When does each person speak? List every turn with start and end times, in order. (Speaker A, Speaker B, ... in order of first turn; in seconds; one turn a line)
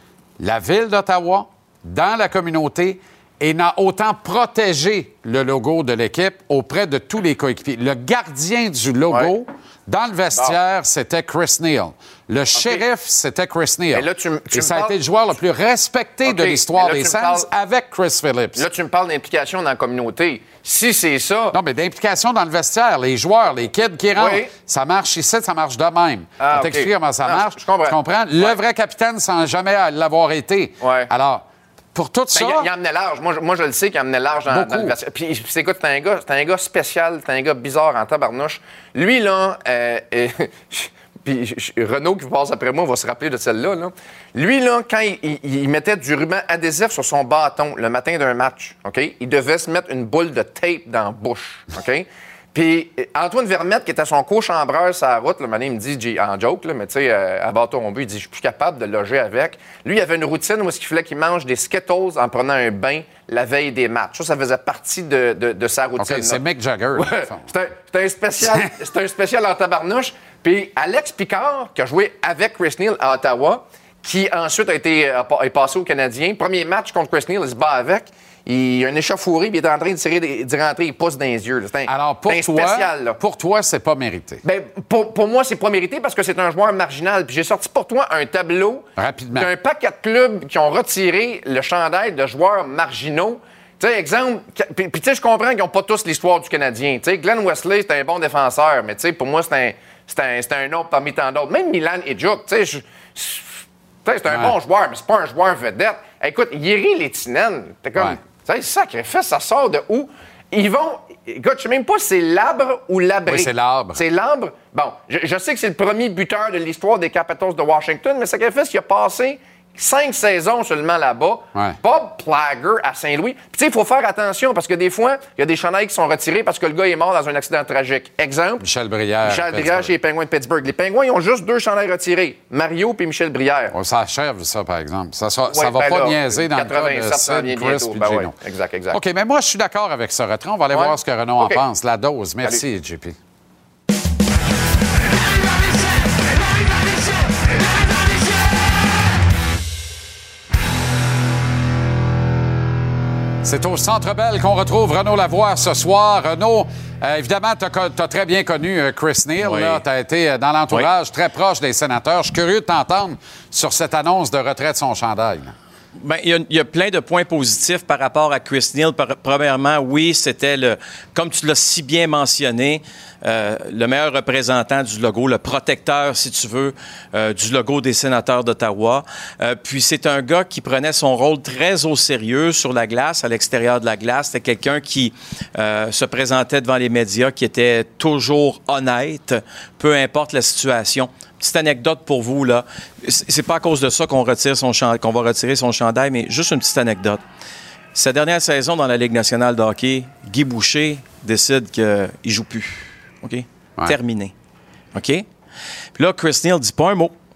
Speaker A: 0.4-18.7
Speaker B: 12.6-12.8
Speaker B: 13.9-14.9
Speaker B: 16.2-17.5
Speaker B: 18.6-21.6
Speaker A: 21.5-32.7
Speaker B: 24.2-24.5
Speaker B: 26.4-28.6
Speaker B: 30.8-31.1
Speaker B: 32.3-66.4
Speaker A: 34.5-35.0
Speaker A: 66.0-67.4
Speaker B: 67.0-83.2
Speaker A: 68.4-68.7
Speaker A: 81.9-84.4
Speaker B: 84.4-128.6
Speaker A: 89.0-89.5
Speaker A: 104.3-104.6
Speaker A: 113.3-114.0
Speaker A: 128.6-129.9
Speaker B: 129.2-133.7
Speaker A: 133.7-138.3
Speaker B: 135.5-139.0
Speaker A: 138.9-143.2
Speaker B: 140.7-141.6
Speaker A: 153.4-165.5
Speaker C: 159.4-159.8
Speaker C: 166.0-197.2
Speaker C: 197.9-204.3
Speaker C: 204.9-205.2
Speaker C: 206.0-207.1